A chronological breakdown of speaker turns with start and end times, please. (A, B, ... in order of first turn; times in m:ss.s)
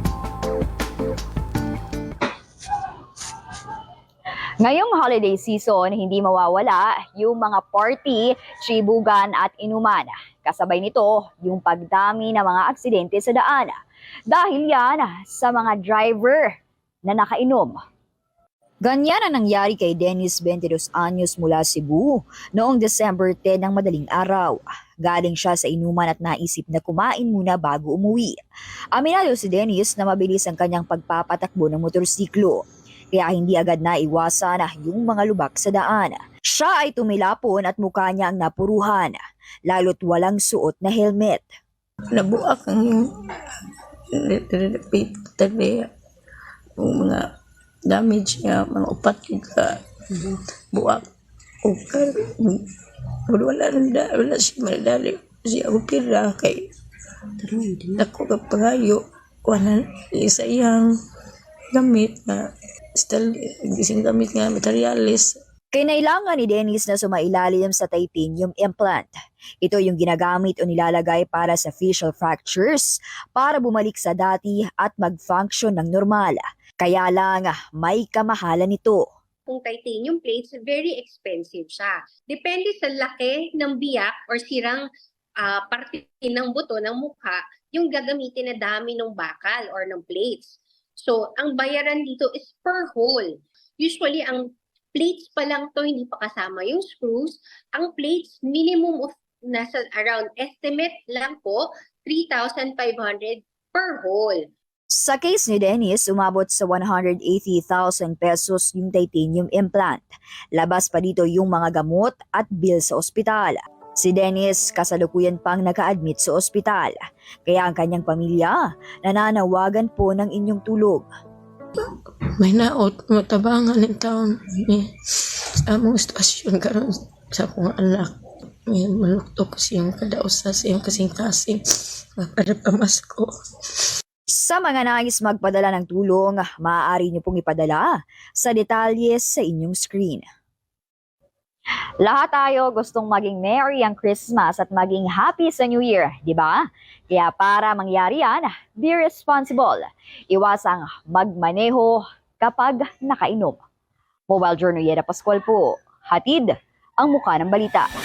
0:04.6-0:13.8 A
0:14.3-0:16.5 A
0:17.1-0:17.8 A
0:18.8-0:28.4 A
0:28.9-0:39.2 A
0:39.7-0:41.4 A
0:42.1-0:45.9 B
0:46.8-0:47.3 B
0:47.8-0:51.1 B
0:51.6-0:52.7 B
0:53.3-0:56.7 B
0:57.4-1:00.9 B
1:01.7-1:05.4 B
1:05.7-1:19.0 A
1:19.5-1:24.8 C
1:25.4-1:34.4 C
1:34.9-1:44.4 C
1:44.9-1:50.0 A
1:50.5-2:01.0 A
2:01.8-2:08.1 B
2:08.7-2:13.8 B
2:14.3-2:20.2 A
2:22.0-2:33.6 A
2:34.3-2:37.9 A